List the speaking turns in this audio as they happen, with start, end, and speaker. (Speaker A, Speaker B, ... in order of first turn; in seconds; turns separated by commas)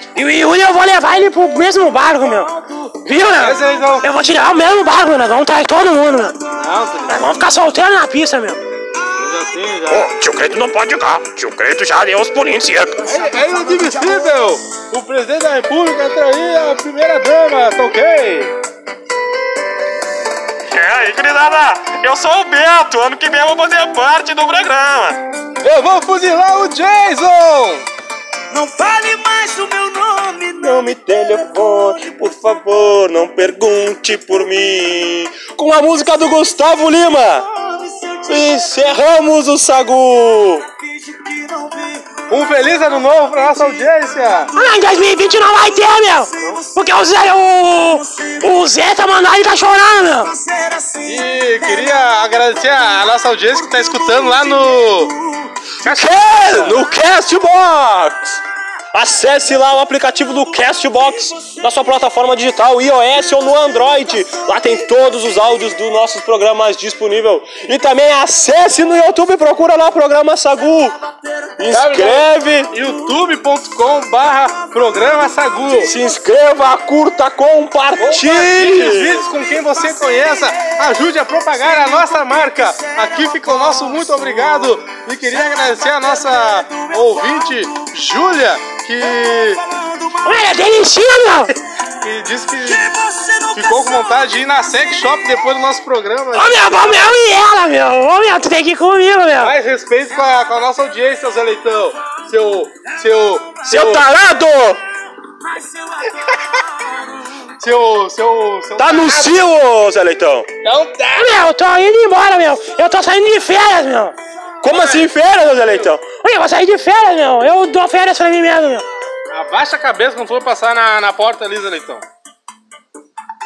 Speaker A: 0.1-6.4, Speaker B: 2.6-2.9, Speaker C: 3.3-4.1, Speaker C: 6.5-7.4, Speaker A: 7.1-8.6, Speaker C: 9.1-10.1, Speaker D: 9.9-13.1, Speaker C: 13.0-18.5, Speaker D: 20.7-25.2, Speaker C: 25.6-27.9, Speaker B: 28.5-30.8, Speaker D: 30.6-37.5, Speaker B: 37.5-38.8, Speaker D: 38.2-40.6, Speaker B: 40.7-42.2, Speaker C: 42.3-44.5, Speaker B: 43.3-44.7, Speaker A: 44.5-50.3, Speaker B: 46.3-47.1, Speaker B: 47.9-48.7, Speaker B: 50.2-52.1, Speaker C: 51.0-55.1, Speaker B: 53.8-55.5, Speaker C: 55.8-56.8, Speaker D: 55.8-58.4, Speaker D: 58.9-71.0, Speaker D: 71.6-72.7, Speaker C: 71.7-75.9, Speaker D: 75.8-79.2, Speaker C: 78.0-89.6, Speaker B: 81.8-84.7, Speaker B: 85.8-87.5, Speaker B: 89.5-90.5, Speaker A: 90.2-91.5, Speaker C: 92.0-97.2, Speaker B: 92.8-94.1, Speaker A: 96.3-99.5, Speaker C: 99.4-104.0, Speaker D: 103.6-104.8, Speaker C: 107.6-109.4, Speaker D: 108.8-110.5, Speaker C: 110.6-111.4, Speaker A: 111.1-114.2, Speaker C: 114.6-115.1, Speaker D: 114.6-116.0, Speaker A: 116.2-118.8, Speaker C: 119.3-122.0